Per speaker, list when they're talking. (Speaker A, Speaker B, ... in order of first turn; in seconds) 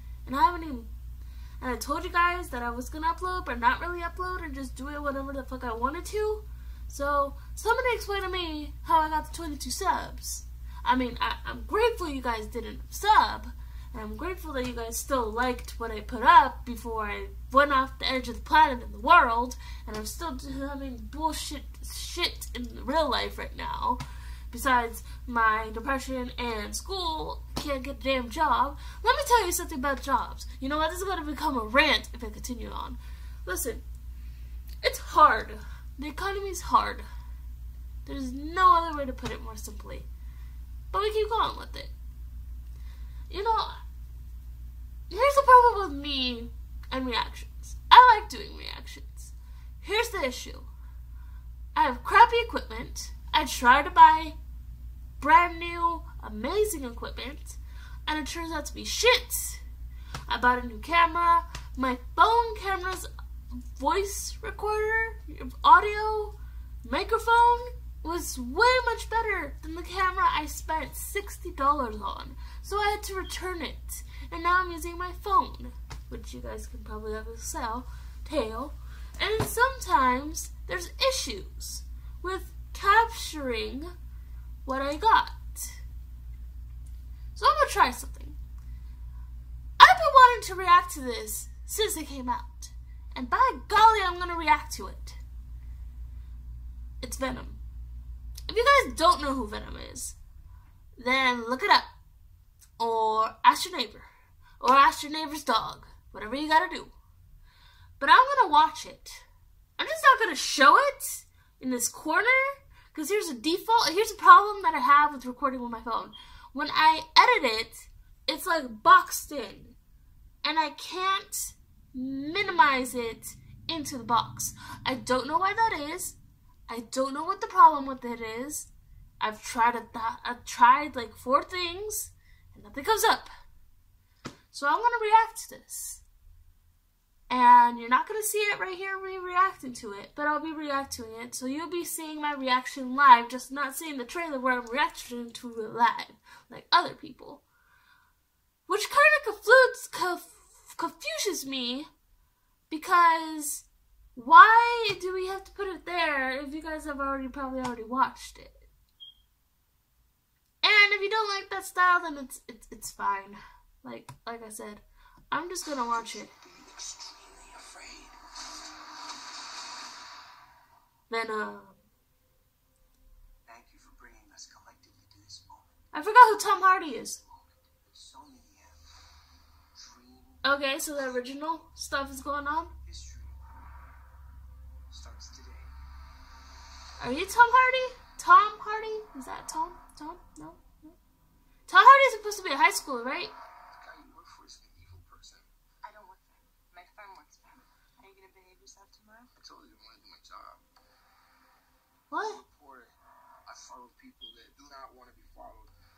Speaker A: 0.2-0.9, 1.6-33.8, 34.8-37.0, 38.0-40.1, 40.9-41.9, 43.3-43.8, 45.1-50.7, 51.7-54.4, 55.2-59.6, 60.3-63.1, 63.7-83.9, 84.6-85.8, 87.3-88.4, 89.8-95.2, 97.0-97.6, 98.5-100.2, 101.0-101.9, 102.8-104.1, 104.6-106.9, 108.0-109.2, 109.8-119.8, 120.4-126.2, 126.7-128.7, 129.2-133.3, 134.5-136.0, 137.3-147.4, 148.7-151.9, 152.7-158.7, 160.6-166.3, 171.1-171.8, 175.9-177.2, 180.4-182.7, 187.0-190.9, 191.7-193.3, 202.1-202.4
Speaker B: 165.9-168.2, 173.5-175.7, 177.2-178.8, 179.8-180.4, 180.9-181.4, 182.8-183.4, 184.9-185.7, 193.7-195.5, 199.4-200.6, 202.1-202.9, 203.5-205.7
Speaker C: 195.8-199.3